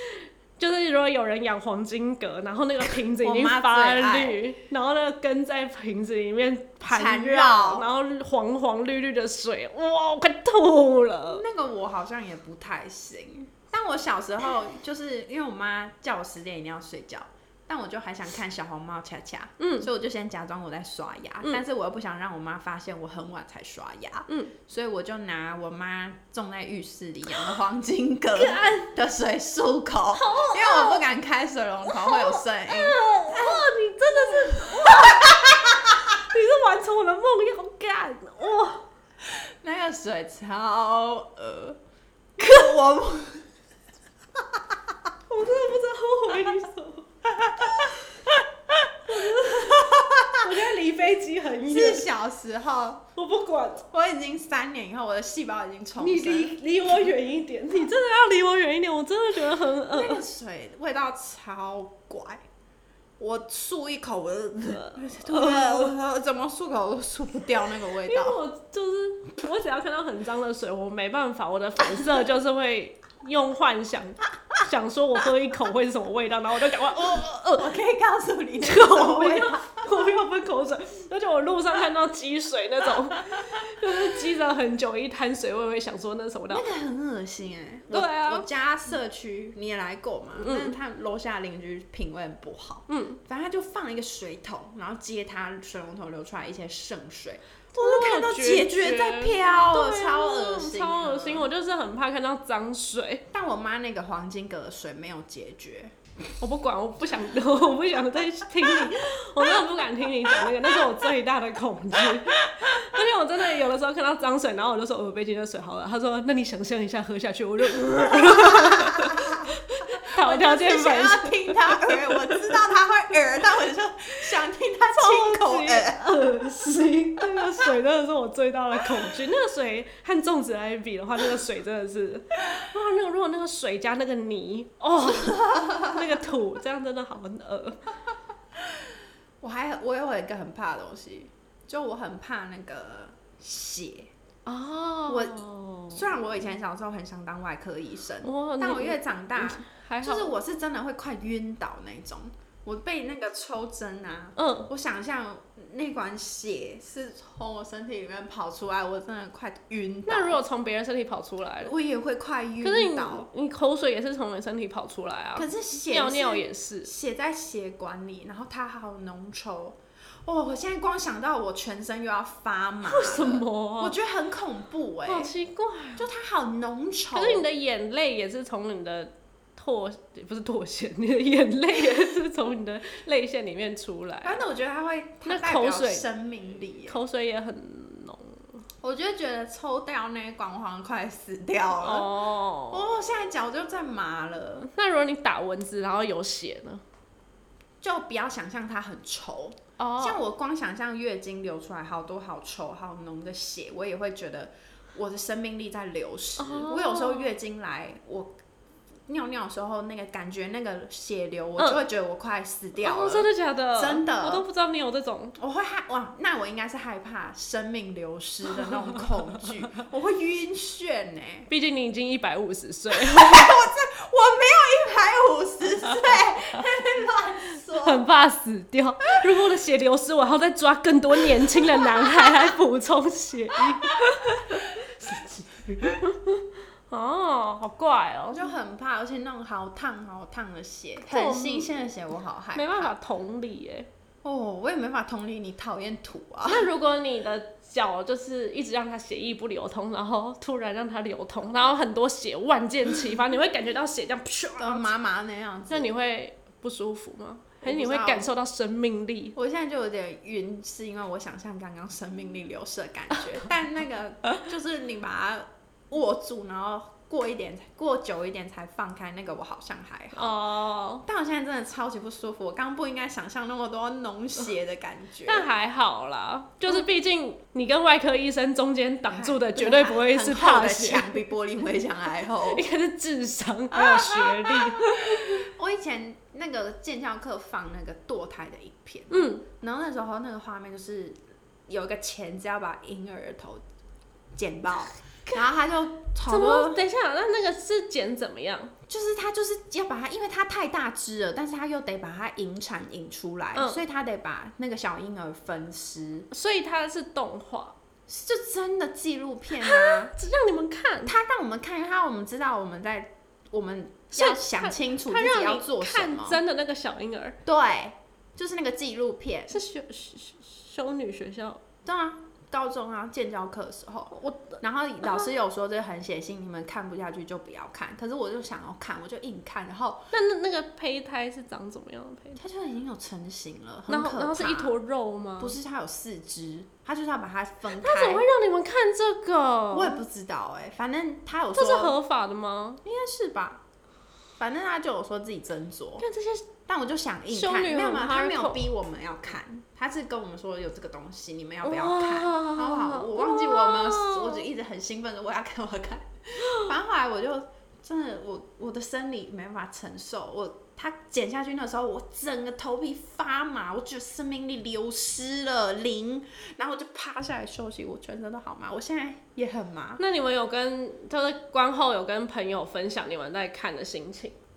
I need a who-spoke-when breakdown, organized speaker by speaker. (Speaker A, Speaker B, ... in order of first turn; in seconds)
Speaker A: 0.6-11.4, 19.6-19.9, 24.3-24.5, 28.3-28.9, 30.1-31.0, 31.9-35.4, 36.2-38.9, 45.3-47.1, 49.1-52.1, 53.2-53.9, 56.0-60.2, 64.7-66.0, 68.0-77.7, 78.6-86.7, 87.9-88.5, 90.4-90.8, 92.9-93.2, 97.7-103.2, 106.4-122.5, 125.0-137.8, 144.5-146.1, 148.2-150.3, 154.4-154.7, 160.1-161.7, 162.6-166.9, 172.9-174.0, 175.1-176.1, 177.1-184.4, 185.2-186.1, 186.9-188.4, 191.8-192.9, 194.7-196.8, 199.8-200.2, 206.4-207.3, 212.8-215.3, 221.5-223.6, 227.8-234.7, 236.0-238.5, 241.1-241.8, 242.6-243.9, 246.4-254.9, 255.7-259.4, 270.1-271.1, 275.3-281.1, 282.5-285.4, 289.1-289.4, 296.2-298.7, 303.6-303.8, 306.3-307.8, 309.6-311.1, 314.1-317.4, 319.5-321.6, 324.1-325.3, 330.1-332.4, 333.9-335.6, 337.8-340.0, 341.6-342.8, 346.0-346.5, 347.3-348.7, 351.6-354.4, 370.0-374.4
Speaker B: 2.9-4.4, 6.8-7.9, 11.3-36.2, 39.6-41.8, 42.4-43.5, 47.4-48.0, 49.1-50.5, 51.7-53.0, 53.9-56.6, 59.9-62.4, 63.2-68.4, 77.0-80.1, 83.3-83.6, 86.5-101.5, 103.3-105.9, 110.3-110.8, 112.1-112.8, 118.0-119.5, 120.0-126.4, 127.2-127.7, 135.1-136.2, 139.4-144.1, 145.1-160.4, 161.6-163.3, 165.4-175.3, 176.0-177.5, 184.2-187.0, 188.8-192.1, 192.7-194.7, 197.8-208.3, 209.1-214.4, 215.4-221.5, 222.9-228.1, 231.7-232.3, 233.7-236.0, 238.3-242.9, 244.2-246.7, 254.6-255.9, 257.6-258.3, 259.4-270.4, 271.0-275.5, 279.1-282.7, 283.7-293.6, 294.4-296.8, 298.9-306.3, 308.1-310.1, 311.1-316.4, 317.4-319.6, 321.9-330.1, 332.4-334.8, 335.4-338.2, 339.7-342.0, 342.8-343.6, 344.4-346.1, 346.7-370.0